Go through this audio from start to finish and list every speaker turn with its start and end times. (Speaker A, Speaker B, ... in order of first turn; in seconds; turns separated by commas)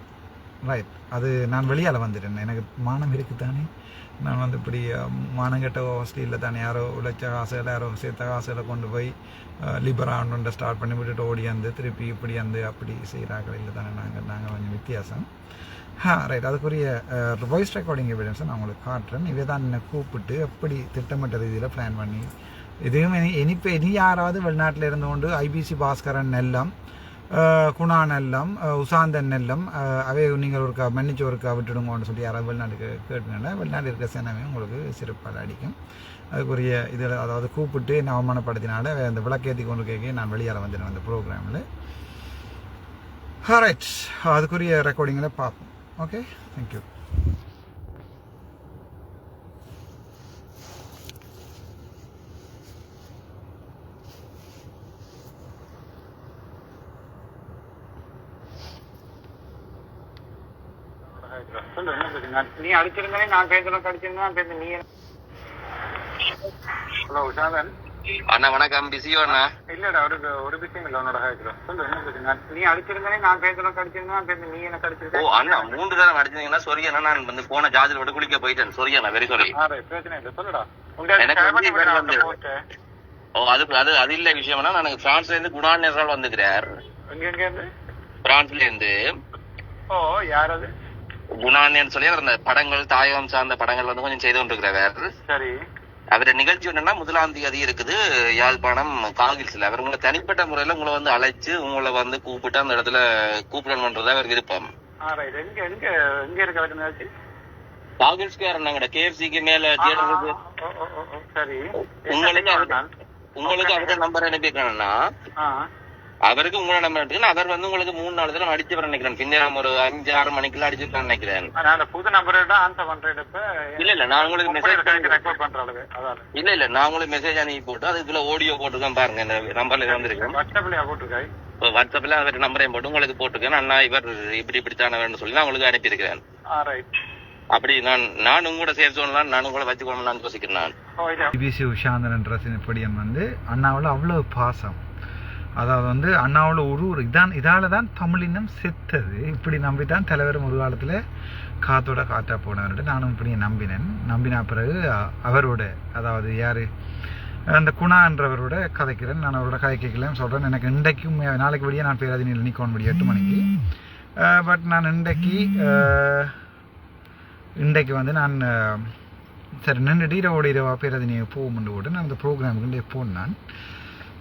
Speaker A: 0.6-3.7, Speaker A: 4.2-15.3, Speaker A: 16.0-22.3, Speaker A: 22.9-26.7, Speaker A: 27.3-35.8, Speaker A: 36.3-41.6, Speaker A: 43.5-46.9, Speaker B: 61.1-64.8, Speaker B: 67.1-67.7, Speaker C: 68.3-69.5, Speaker B: 69.3-76.0, Speaker C: 75.1-79.6, Speaker B: 79.4-82.5, Speaker C: 81.2-82.3, Speaker C: 83.4-86.7, Speaker B: 87.1-87.7, Speaker C: 88.3-88.9, Speaker B: 89.9-90.7, Speaker C: 91.4-95.1, Speaker B: 95.3-95.6, Speaker C: 96.1-104.7, Speaker B: 105.0-107.1, Speaker C: 108.0-110.3, Speaker B: 109.8-112.9, Speaker C: 112.1-112.8, Speaker C: 113.4-114.9, Speaker B: 113.4-114.0, Speaker C: 116.3-121.5, Speaker B: 121.6-126.3, Speaker C: 123.8-125.4, Speaker C: 126.3-130.4, Speaker B: 129.9-131.3, Speaker C: 131.6-136.2, Speaker B: 136.5-136.9, Speaker C: 137.6-140.7, Speaker B: 141.0-141.3, Speaker A: 141.3-144.8, Speaker A: 145.6-151.0, Speaker A: 151.6-156.7, Speaker A: 157.5-163.5, Speaker A: 164.2-166.4, Speaker A: 167.6-168.9, Speaker A: 169.6-173.4